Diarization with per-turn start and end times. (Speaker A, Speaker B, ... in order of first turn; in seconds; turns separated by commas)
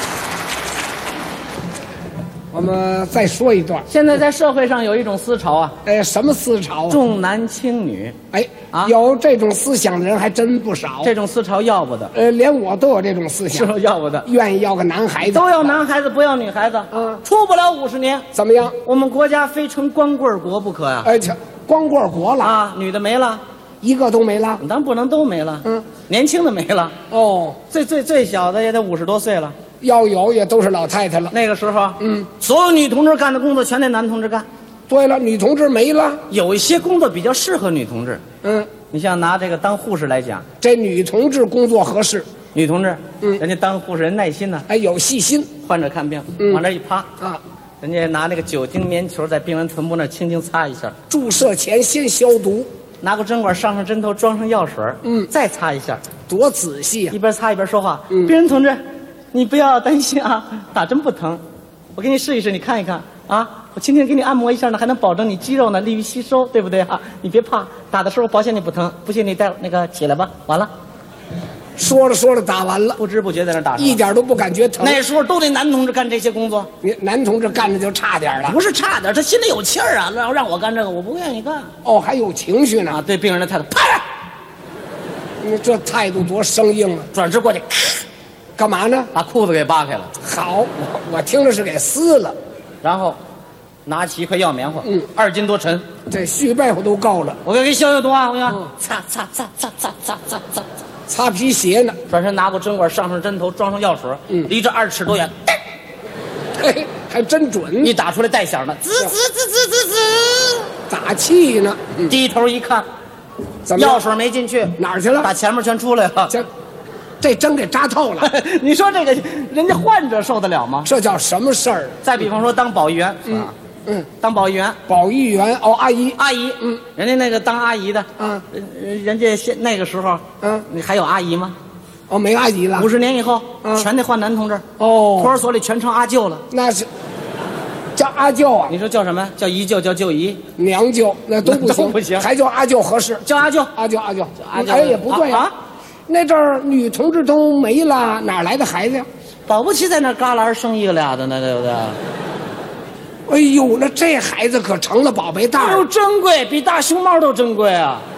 Speaker A: 2.5-3.9, Speaker B: 3.9-5.8, Speaker A: 5.8-7.0, Speaker B: 6.9-8.2, Speaker A: 8.3-11.1, Speaker B: 11.0-12.1, Speaker A: 12.1-13.7, Speaker B: 13.5-14.3, Speaker A: 14.2-15.8, Speaker B: 15.2-18.2, Speaker A: 16.9-17.2, Speaker A: 18.3-18.8, Speaker B: 18.8-21.1, Speaker A: 21.0-22.6, Speaker B: 22.4-23.4, Speaker A: 23.8-24.6, Speaker B: 24.6-26.9, Speaker A: 27.1-27.6, Speaker B: 27.7-29.6, Speaker A: 29.8-31.3, Speaker B: 31.3-34.5, Speaker A: 32.0-32.3, Speaker A: 34.9-36.2, Speaker B: 36.3-38.2, Speaker A: 38.4-38.7, Speaker B: 38.9-40.5, Speaker A: 40.6-42.3, Speaker B: 42.5-44.7, Speaker A: 44.7-45.5, Speaker B: 45.6-47.1, Speaker B: 47.8-51.0, Speaker A: 51.1-52.7, Speaker B: 53.0-56.0, Speaker A: 55.0-55.3, Speaker A: 56.3-57.2, Speaker B: 57.1-61.4, Speaker B: 62.0-70.7, Speaker A: 71.8-73.0, Speaker B: 73.0-74.0, Speaker A: 73.8-75.0, Speaker B: 74.8-76.7, Speaker A: 76.8-78.6, Speaker B: 78.4-81.7, Speaker A: 81.8-83.0, Speaker B: 82.9-84.1, Speaker A: 85.4-87.1, Speaker B: 87.1-88.0, Speaker A: 88.6-89.1, Speaker B: 89.1-90.1, Speaker A: 90.2-92.4, Speaker B: 92.8-93.2, Speaker B: 93.9-95.9, Speaker A: 96.1-97.4, Speaker B: 97.4-100.7, Speaker A: 101.1-102.0, Speaker B: 102.1-105.6, Speaker A: 106.6-107.9, Speaker B: 107.8-110.7, Speaker A: 110.9-112.2, Speaker B: 112.1-112.9, Speaker A: 113.7-114.0, Speaker B: 113.7-116.4, Speaker A: 114.8-115.3, Speaker A: 117.2-118.3, Speaker B: 118.2-120.9, Speaker A: 120.8-122.0, Speaker B: 122.0-123.5, Speaker A: 123.3-124.1, Speaker B: 124.2-124.8, Speaker A: 124.9-126.8, Speaker B: 126.2-131.6, Speaker A: 128.2-128.4, Speaker A: 132.1-132.9, Speaker B: 132.8-134.6, Speaker A: 133.6-133.9, Speaker A: 134.8-135.4, Speaker B: 135.2-136.4, Speaker A: 136.5-136.9, Speaker A: 138.0-138.8, Speaker B: 138.7-140.4, Speaker A: 140.6-143.2, Speaker B: 141.4-142.3, Speaker B: 143.2-143.7, Speaker A: 143.8-145.5, Speaker B: 144.4-145.6, Speaker A: 146.1-149.1, Speaker B: 149.5-152.0, Speaker A: 153.3-155.9, Speaker B: 155.6-158.1